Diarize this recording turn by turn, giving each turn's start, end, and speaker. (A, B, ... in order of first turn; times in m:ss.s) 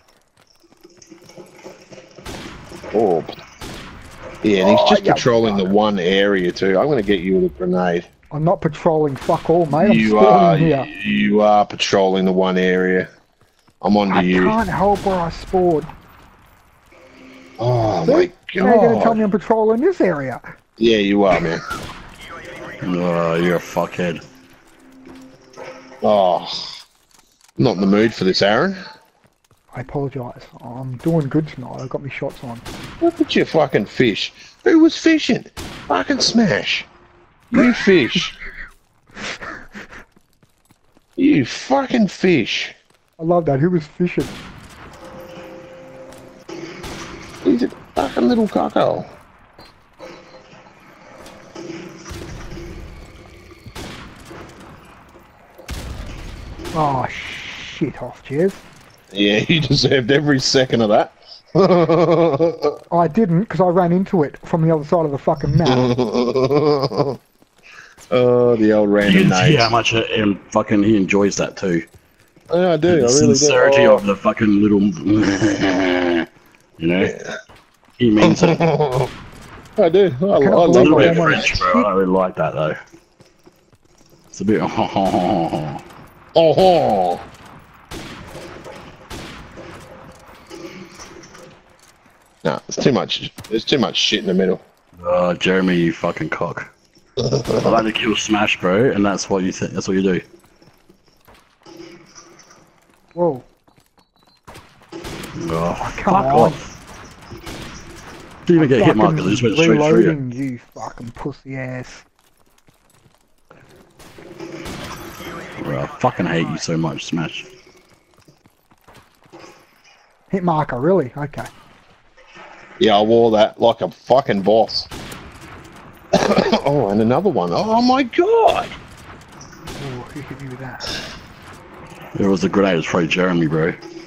0:02.9-0:03.4 A
0:04.4-0:08.1 A
0:04.6-0:05.7 B
0:08.3-0:10.9 B
0:09.7-0:13.1 A
0:13.8-0:14.6 A
0:14.1-0:15.9 B
0:17.6-0:19.2 A
0:18.0-0:20.4 B
0:20.8-0:21.6 A
0:22.8-0:24.2 C
0:26.0-0:26.8 A
0:27.6-0:28.8 A
0:29.7-0:32.7 B
0:33.0-0:36.9 A
0:37.5-0:38.4 A
0:41.2-0:42.8 A
0:43.2-0:44.4 B
0:47.4-0:49.1 A
0:56.7-0:58.6 B
0:59.1-1:02.8 A
1:02.9-1:05.9 B
1:05.7-1:07.2 A
1:08.1-1:09.7 A
1:09.0-1:11.8 C
1:12.5-1:14.0 A
1:12.8-1:16.3 C
1:16.8-1:17.1 C
1:17.0-1:17.4 A
1:18.0-1:18.6 C
1:18.2-1:19.1 A
1:19.8-1:21.6 A
1:20.4-1:21.9 B
1:20.7-1:22.8 C
1:24.3-1:25.8 C
1:26.4-1:27.2 A
1:32.4-1:34.6 A
1:35.0-1:36.7 C
1:37.2-1:37.8 A
1:37.6-1:40.2 C
1:43.1-1:43.5 B
1:45.4-1:46.6 C
1:45.8-1:46.6 B
1:48.5-1:50.2 C
1:48.6-1:52.1 B
1:55.6-1:57.5 C
2:00.3-2:01.5 B
2:02.8-2:04.9 A
2:06.2-2:08.8 A
2:09.8-2:11.0 B
2:12.2-2:13.8 C